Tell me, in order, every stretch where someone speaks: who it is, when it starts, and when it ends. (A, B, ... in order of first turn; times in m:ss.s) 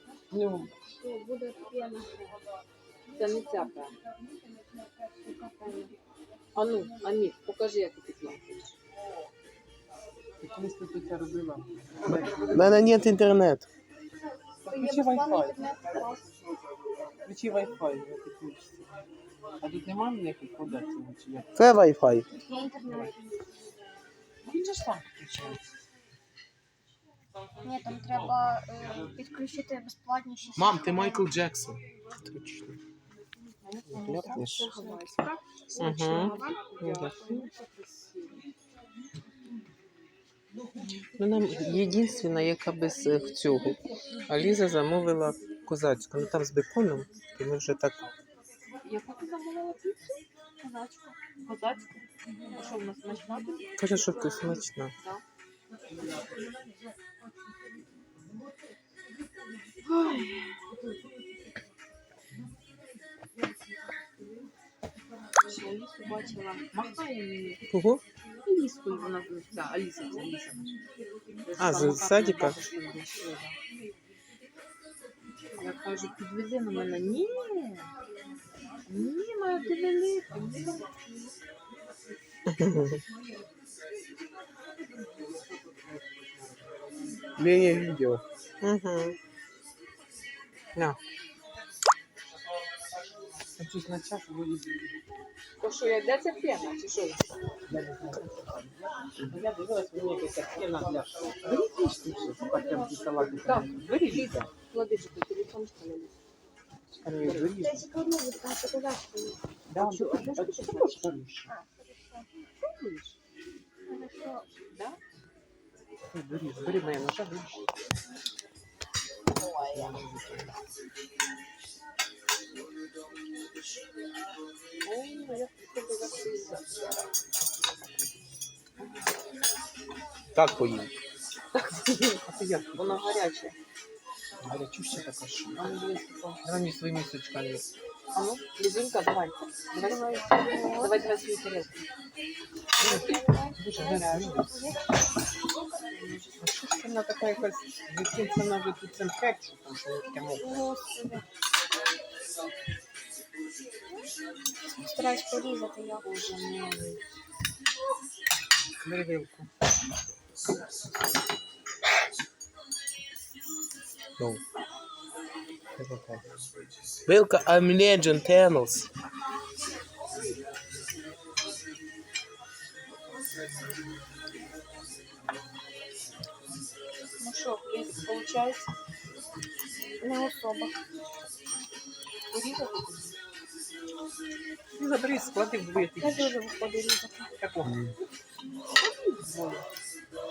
0:00.3-0:00.7 A
0:00.8-0:02.3 B
0:03.1-0:04.0 C
0:05.0-0:05.9 B
0:06.6-0:08.8 C
0:10.4-0:12.8 A
0:12.5-0:13.7 D
0:14.6-0:15.7 A
0:14.7-0:16.3 B
0:17.2-0:19.0 A
0:19.6-0:21.5 A
0:21.6-0:22.3 D
0:22.3-0:23.5 B
0:22.8-0:23.1 A
0:24.4-0:25.6 C
0:27.6-0:31.2 B
0:30.6-0:31.8 D
0:32.3-0:32.8 A
0:33.6-0:38.5 C
0:34.0-0:34.5 D
0:34.0-0:34.7 A
0:34.4-0:35.2 B
0:35.7-0:36.8 B
0:35.8-0:37.5 A
0:41.1-0:48.1 A
0:48.8-0:51.9 C
0:52.5-0:55.2 C
0:53.8-0:54.9 A
0:59.9-1:00.5 C
1:05.4-1:07.6 C
1:07.7-1:08.0 A
1:08.4-1:10.8 C
1:11.4-1:13.6 C
1:11.6-1:12.6 A
1:15.6-1:17.9 C
1:18.9-1:21.1 C
1:22.6-1:23.0 A
1:25.1-1:27.0 A
1:27.4-1:28.2 D
1:28.6-1:29.2 A
1:33.5-1:35.0 A
1:35.6-1:37.3 C
1:37.7-1:44.5 A
1:43.4-1:46.2 C
1:47.0-1:47.9 A
1:47.1-1:47.6 C
1:47.6-1:49.4 B
1:49.7-1:51.6 A
1:49.8-1:51.1 C
1:51.5-1:52.2 B
1:52.6-1:53.2 C
1:53.9-1:54.5 B
1:54.5-1:55.0 C
1:56.1-1:57.6 A
1:59.3-2:00.0 C
1:59.7-2:00.5 A
2:04.8-2:07.0 C
2:10.3-2:11.0 D
2:11.5-2:12.2 C
2:12.2-2:13.1 A
2:12.8-2:13.6 C
2:14.4-2:15.7 A
2:15.6-2:16.4 C
2:16.4-2:17.7 A
2:18.1-2:21.9 C
2:19.8-2:21.0 B
2:22.8-2:24.7 A
2:22.8-2:24.8 B
2:22.8-2:24.4 C
2:25.9-2:26.5 C
2:26.4-2:30.7 A
2:30.4-2:31.3 B
2:34.7-2:36.1 B
2:36.0-2:37.0 C
2:38.8-2:39.5 A
2:45.8-2:46.2 D
2:47.1-2:48.9 D
2:57.2-2:58.7 C
3:00.0-3:00.8 B
3:02.3-3:03.2 C
3:04.8-3:06.4 A
3:06.0-3:07.3 B
3:07.4-3:07.9 A
3:08.8-3:09.7 C